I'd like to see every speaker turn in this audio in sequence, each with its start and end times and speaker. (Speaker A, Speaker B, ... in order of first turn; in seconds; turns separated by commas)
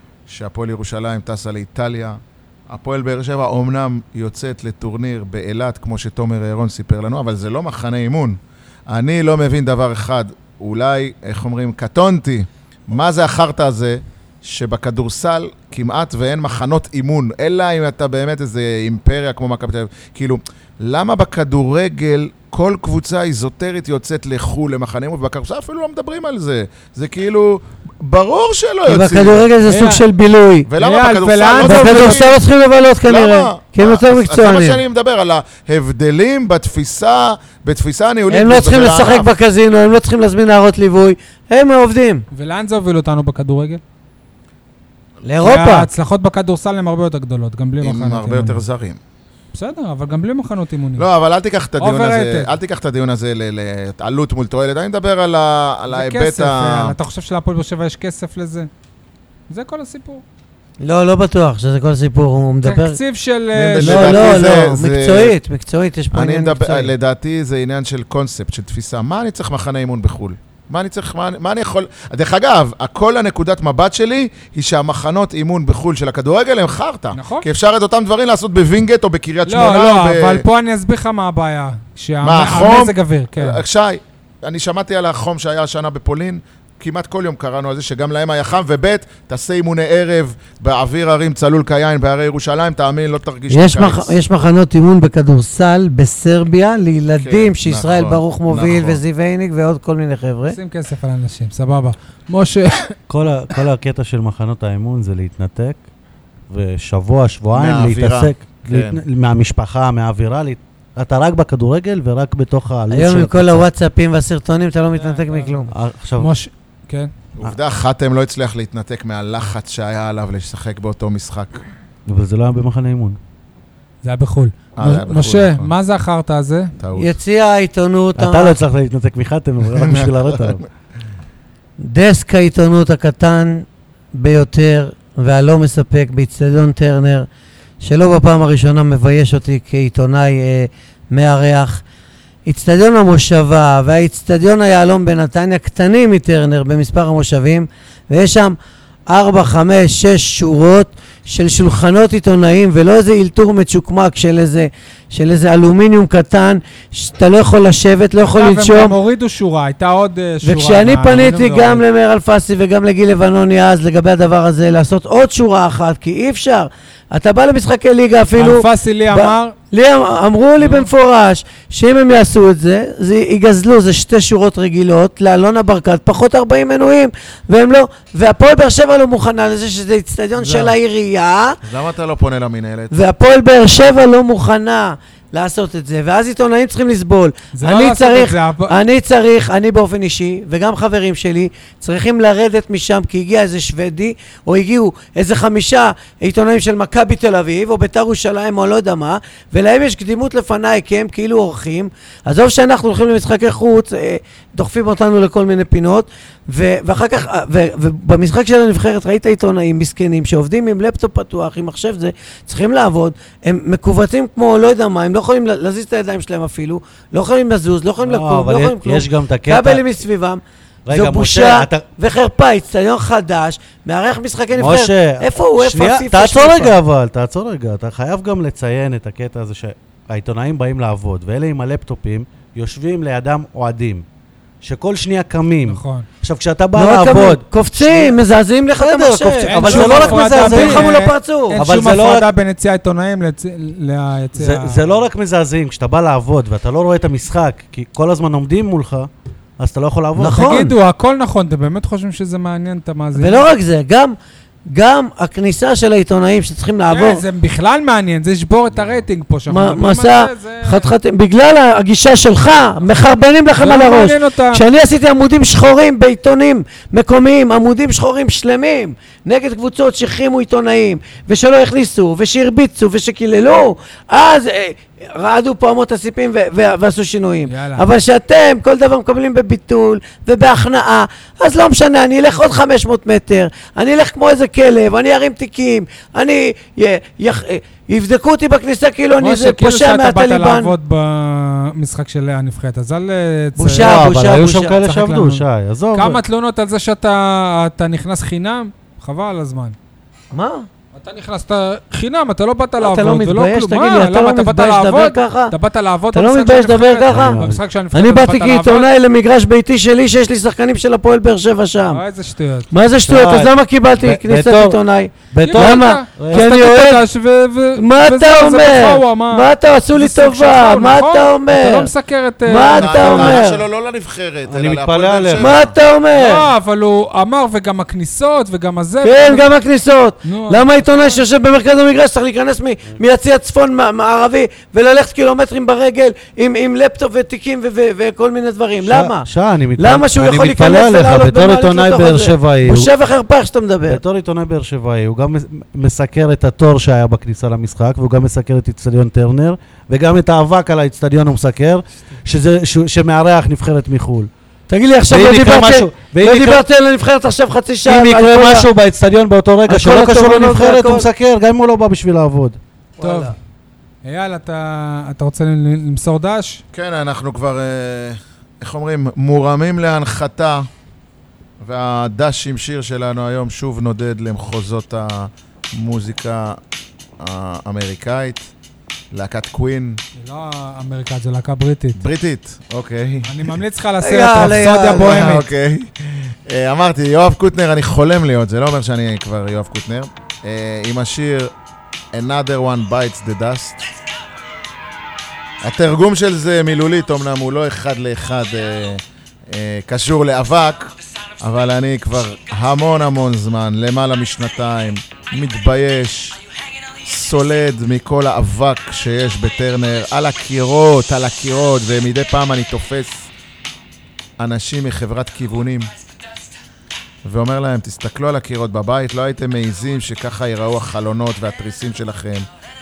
Speaker A: 0.3-29.5, Speaker B: 28.9-30.7, Speaker C: 29.7-30.0, Speaker A: 30.7-32.4, Speaker C: 30.8-32.2, Speaker B: 31.6-34.8, Speaker A: 33.1-39.3, Speaker B: 38.3-42.3, Speaker C: 42.3-43.8, Speaker B: 45.2-45.9, Speaker C: 45.4-48.6, Speaker A: 47.8-49.0, Speaker C: 49.5-51.1, Speaker A: 51.0-57.0, Speaker C: 51.8-52.5, Speaker C: 55.9-58.7, Speaker C: 59.5-60.2, Speaker B: 60.8-63.0, Speaker C: 62.6-64.5, Speaker A: 63.6-65.4, Speaker B: 63.7-66.9, Speaker A: 66.1-80.4, Speaker C: 77.1-77.5, Speaker C: 79.5-83.6, Speaker A: 82.2-94.2, Speaker B: 93.5-100.6, Speaker A: 97.2-99.0, Speaker C: 100.5-103.0, Speaker D: 103.1-105.8, Speaker D: 106.5-113.7, Speaker A: 107.5-109.0, Speaker B: 112.9-115.7, Speaker C: 115.0-115.6, Speaker D: 115.7-116.3, Speaker C: 116.2-117.1, Speaker A: 117.4-121.6, Speaker D: 122.1-123.2, Speaker C: 124.0-126.7, Speaker A: 124.8-125.7, Speaker A: 126.8-127.2, Speaker B: 127.0-128.6, Speaker D: 128.2-130.7, Speaker B: 131.8-137.3, Speaker B: 137.8-141.8, Speaker B: 142.4-148.6, Speaker B: 149.1-158.9, Speaker C: 158.2-161.8, Speaker B: 160.4-181.6, Speaker C: 168.4-169.6, Speaker C: 170.6-170.9, Speaker C: 180.4-180.7, Speaker A: 181.6-182.9, Speaker B: 182.9-226.8, Speaker C: 187.5-188.8, Speaker D: 218.0-219.8, Speaker D: 220.9-221.9, Speaker D: 224.6-234.1, Speaker D: 234.6-238.2, Speaker C: 235.7-236.1, Speaker B: 236.7-241.6, Speaker D: 238.8-242.3, Speaker C: 239.4-244.8, Speaker D: 244.4-250.5, Speaker B: 250.2-250.7, Speaker C: 250.3-253.4, Speaker B: 253.2-254.2, Speaker B: 254.7-257.2, Speaker C: 256.9-260.9, Speaker B: 259.5-290.7, Speaker C: 263.6-264.6, Speaker C: 277.5-277.9, Speaker C: 289.2-294.0, Speaker B: 293.6-294.8, Speaker D: 293.7-296.2, Speaker C: 294.8-299.8, Speaker B: 300.3-300.7, Speaker C: 300.9-308.9, Speaker B: 302.8-305.6, Speaker B: 306.1-307.4, Speaker D: 307.1-307.6, Speaker B: 307.9-312.0, Speaker C: 311.9-312.7, Speaker B: 312.7-317.1, Speaker D: 313.1-316.5, Speaker C: 315.4-323.4, Speaker B: 317.8-321.9, Speaker B: 322.4-323.6, Speaker A: 322.6-325.8, Speaker D: 324.5-325.6, Speaker B: 325.4-326.5, Speaker C: 326.1-329.5, Speaker B: 329.0-344.0, Speaker C: 330.2-331.2, Speaker D: 338.8-342.9, Speaker D: 343.9-354.3, Speaker B: 354.7-358.7, Speaker D: 355.1-356.6, Speaker D: 357.9-362.6, Speaker B: 359.7-361.1, Speaker B: 363.0-363.3, Speaker C: 363.0-363.3, Speaker C: 364.0-366.6, Speaker A: 366.7-370.7, Speaker A: 371.6-376.6, Speaker A: 377.2-378.5, Speaker A: 379.1-380.0, Speaker C: 380.2-382.0, Speaker A: 381.9-383.3, Speaker C: 383.2-385.5, Speaker B: 384.0-385.4, Speaker A: 384.9-391.5, Speaker A: 392.1-393.8, Speaker A: 395.6-406.4, Speaker A: 407.0-413.3, Speaker A: 414.4-415.9, Speaker A: 417.2-422.5